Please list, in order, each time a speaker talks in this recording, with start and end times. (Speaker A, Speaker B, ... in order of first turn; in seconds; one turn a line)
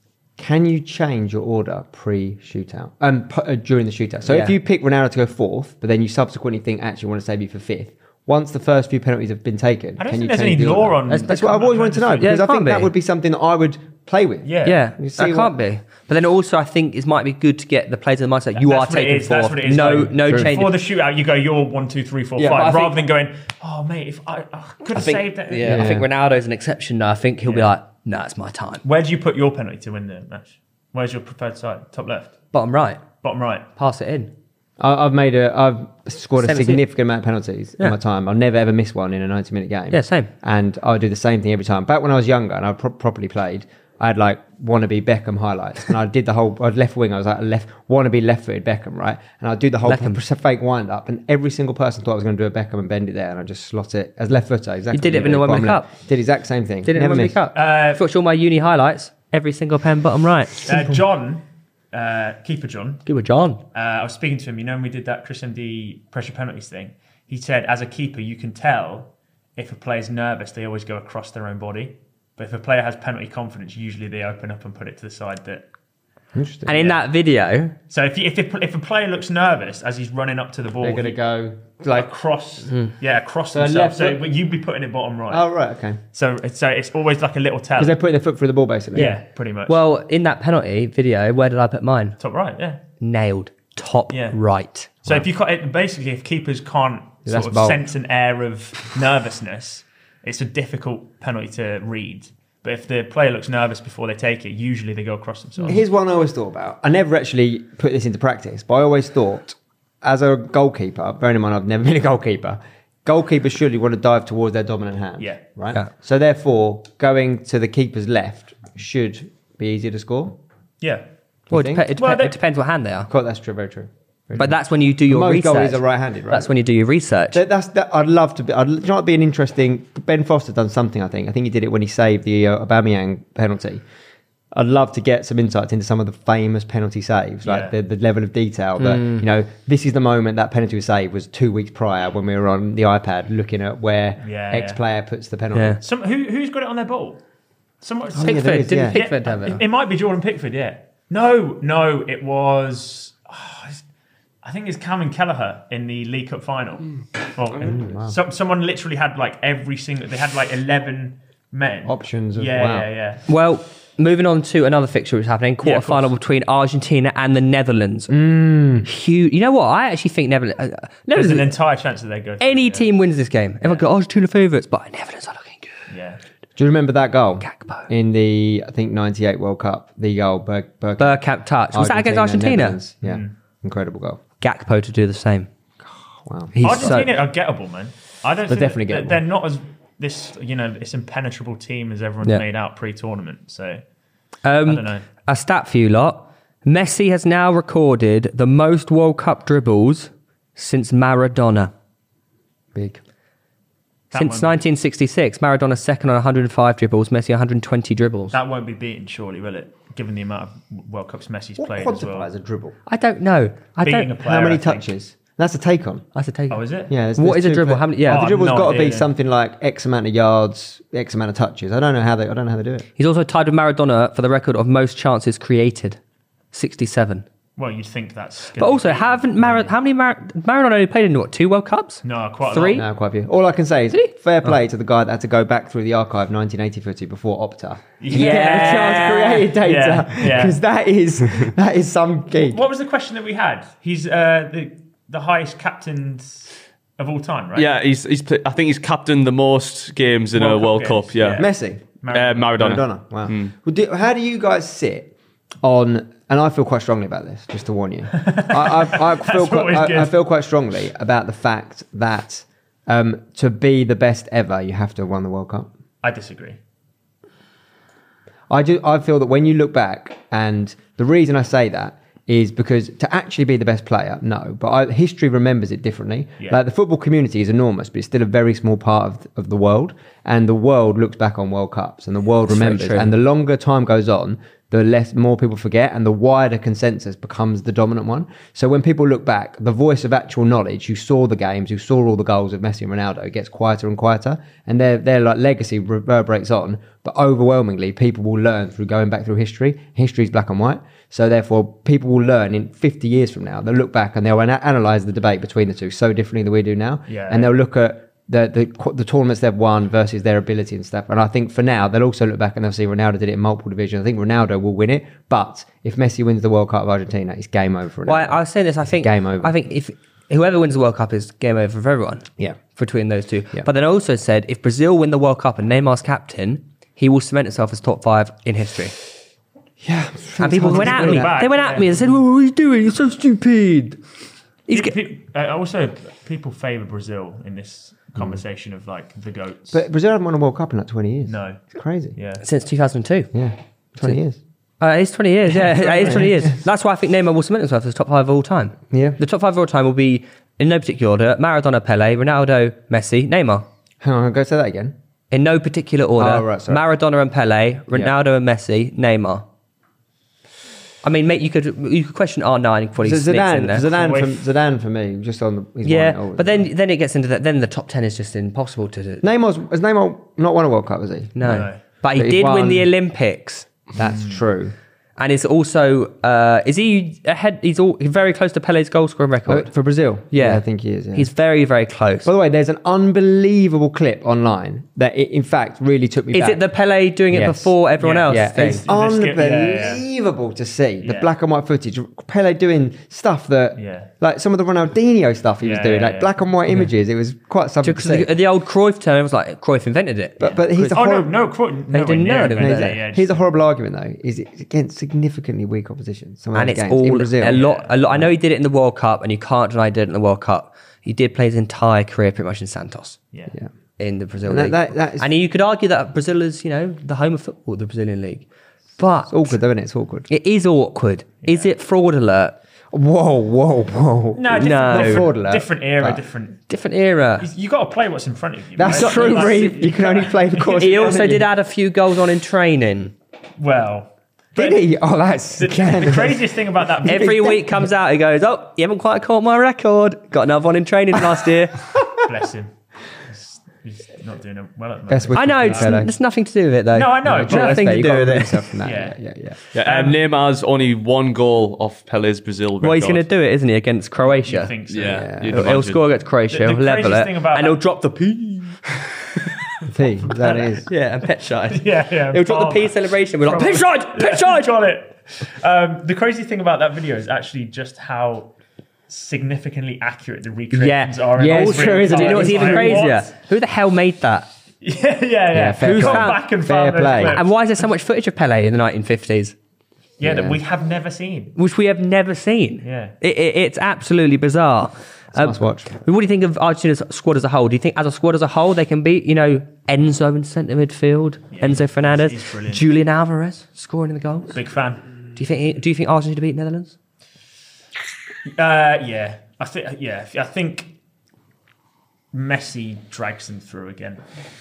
Speaker A: 0.4-15.5
Speaker B: 4.2-4.5
Speaker C: 10.0-12.4
Speaker B: 11.1-11.6
Speaker B: 12.2-12.9
Speaker C: 14.4-14.8
Speaker B: 14.6-20.8
Speaker C: 18.5-25.9
Speaker A: 20.0-20.6
Speaker B: 22.4-23.0
Speaker B: 24.9-28.8
Speaker A: 25.6-26.1
Speaker C: 27.4-27.7
Speaker C: 28.8-32.3
Speaker B: 32.5-33.0
Speaker C: 33.2-33.7
Speaker B: 33.8-34.3
Speaker A: 34.8-57.4
Speaker B: 36.4-36.8
Speaker B: 39.9-40.3
Speaker B: 49.8-50.2
Speaker B: 54.9-55.9
Speaker B: 56.9-61.0
Speaker C: 57.5-58.0
Speaker C: 60.6-63.0
Speaker B: 63.0-63.6
Speaker C: 63.7-75.7
Speaker A: 76.3-76.8
Speaker B: 76.7-77.7
Speaker C: 77.9-81.2
Speaker A: 80.8-82.1
Speaker C: 81.9-85.4
Speaker A: 83.5-84.2
Speaker A: 85.3-86.0
Speaker C: 86.1-88.0
Speaker A: 87.8-89.1
Speaker C: 88.9-89.8
Speaker B: 88.9-92.2
Speaker C: 92.2-92.8
Speaker B: 93.0-95.0
Speaker C: 94.1-94.4
Speaker C: 95.0-105.8
Speaker A: 97.2-97.8
Speaker A: 105.7-120.4
Speaker C: 120.8-121.0
Speaker A: 121.5-121.9
Speaker B: 121.5-123.1
Speaker C: 122.0-122.3
Speaker A: 123.1-124.5
Speaker B: 124.3-127.4
Speaker A: 125.1-126.5
Speaker A: 127.3-133.8
Speaker A: 134.5-145.8
Speaker C: 137.4-137.7
Speaker B: 138.8-139.2
Speaker C: 144.2-144.8
Speaker B: 145.5-145.8
Speaker C: 145.8-147.2
Speaker C: 147.8-153.8
Speaker A: 148.1-149.0
Speaker B: 148.2-149.6
Speaker C: 154.4-163.2
Speaker A: 157.6-158.2
Speaker A: 161.8-162.9
Speaker B: 163.3-168.1
Speaker C: 165.6-166.1
Speaker A: 168.1-168.9
Speaker B: 168.8-171.5
Speaker C: 171.1-172.9
Speaker B: 172.4-175.8
Speaker C: 175.9-176.2
Speaker A: 176.6-184.2
Speaker B: 177.4-177.9
Speaker B: 181.0-182.8
Speaker C: 183.0-183.3
Speaker B: 184.4-185.5
Speaker A: 186.2-187.0
Speaker B: 186.5-187.1
Speaker C: 186.6-193.8
Speaker A: 188.5-189.2
Speaker B: 194.4-201.7
Speaker C: 194.6-195.1
Speaker A: 202.7-203.0
Speaker C: 204.1-204.6
Speaker B: 204.1-208.4
Speaker C: 208.3-212.3
Speaker A: 211.6-212.8
Speaker B: 212.9-214.1
Speaker C: 213.8-214.9
Speaker A: 214.2-216.1
Speaker B: 216.2-216.6
Speaker C: 216.5-216.9
Speaker A: 216.9-222.8
Speaker B: 217.2-218.3
Speaker C: 218.1-219.1
Speaker B: 223.0-226.0
Speaker B: 226.5-227.2
Speaker C: 227.6-229.7
Speaker B: 228.6-232.8
Speaker C: 232.0-232.8
Speaker A: 232.7-242.6
Speaker C: 238.0-240.6
Speaker B: 238.1-239.5
Speaker C: 242.4-247.7
Speaker D: 247.5-251.5
Speaker C: 250.3-251.5
Speaker A: 251.4-251.8
Speaker C: 252.0-252.8
Speaker D: 252.1-253.5
Speaker A: 252.6-265.7
Speaker C: 258.1-260.1
Speaker C: 266.0-266.6
Speaker A: 268.5-318.4
Speaker B: 282.5-283.1
Speaker C: 307.1-307.5
Speaker B: 318.1-328.9
Speaker A: 318.9-319.6
Speaker A: 329.8-331.4
Speaker B: 330.4-334.0
Speaker C: 330.6-332.1
Speaker B: 334.7-335.0
Speaker C: 334.7-339.8
Speaker A: 339.7-342.1
Speaker C: 341.3-341.6
Speaker C: 342.1-342.4
Speaker B: 342.4-343.3
Speaker A: 343.3-344.4
Speaker B: 344.8-353.6
Speaker C: 345.6-346.2
Speaker A: 346.1-346.5
Speaker A: 348.9-349.2
Speaker A: 354.0-354.9
Speaker B: 355.3-359.4
Speaker A: 356.1-356.8
Speaker B: 361.0-363.9
Speaker A: 363.0-366.7
Speaker C: 363.8-364.4
Speaker B: 365.8-369.2
Speaker A: 369.2-372.9
Speaker B: 371.4-373.7
Speaker C: 371.4-371.8
Speaker A: 373.9-374.7
Speaker C: 374.0-374.4
Speaker B: 375.2-379.7
Speaker A: 379.5-381.3
Speaker B: 380.3-380.6
Speaker B: 381.1-382.3
Speaker A: 382.2-386.6
Speaker B: 386.3-388.8
Speaker A: 387.3-387.7
Speaker C: 388.0-390.0
Speaker A: 388.3-398.3
Speaker C: 391.0-391.3
Speaker C: 393.8-394.1
Speaker C: 395.6-396.3
Speaker B: 397.8-400.5
Speaker A: 400.4-401.3
Speaker C: 400.4-403.4
Speaker B: 401.9-403.0
Speaker A: 402.4-407.6
Speaker B: 406.5-413.2
Speaker C: 407.4-408.0
Speaker B: 414.0-418.4
Speaker A: 414.4-415.3
Speaker B: 419.0-419.5
Speaker A: 419.3-420.3
Speaker B: 420.3-422.6
Speaker C: 421.4-421.7
Speaker A: 422.9-426.2
Speaker C: 424.3-426.6
Speaker B: 424.5-425.3
Speaker B: 426.7-427.5
Speaker C: 427.4-431.4
Speaker A: 428.8-431.4
Speaker B: 428.9-429.8
Speaker B: 430.7-433.1
Speaker C: 433.6-434.9
Speaker A: 434.6-437.9
Speaker C: 435.6-437.5
Speaker B: 437.1-441.8
Speaker A: 441.9-442.2
Speaker C: 442.2-446.0
Speaker A: 445.1-446.1
Speaker B: 445.3-448.6
Speaker C: 446.9-448.2
Speaker A: 447.2-449.6
Speaker C: 448.8-449.1
Speaker D: 449.7-453.2
Speaker C: 449.8-450.2
Speaker B: 452.8-454.7
Speaker C: 454.4-455.4
Speaker D: 454.9-456.0
Speaker A: 455.0-455.6
Speaker B: 455.5-459.1
Speaker C: 456.5-457.8
Speaker A: 459.9-460.9
Speaker C: 460.3-460.8
Speaker B: 460.9-464.7
Speaker C: 461.7-468.5
Speaker C: 469.1-473.3
Speaker B: 470.7-474.5
Speaker A: 471.4-473.1
Speaker C: 474.8-477.5
Speaker A: 475.5-477.4
Speaker B: 475.8-476.4
Speaker B: 477.2-479.5
Speaker C: 480.2-481.6
Speaker A: 480.2-480.6
Speaker B: 481.6-494.5
Speaker C: 482.8-483.1
Speaker A: 485.3-485.9
Speaker C: 491.5-492.9
Speaker C: 494.5-495.0
Speaker B: 495.4-496.9
Speaker C: 498.4-500.9
Speaker C: 502.3-504.2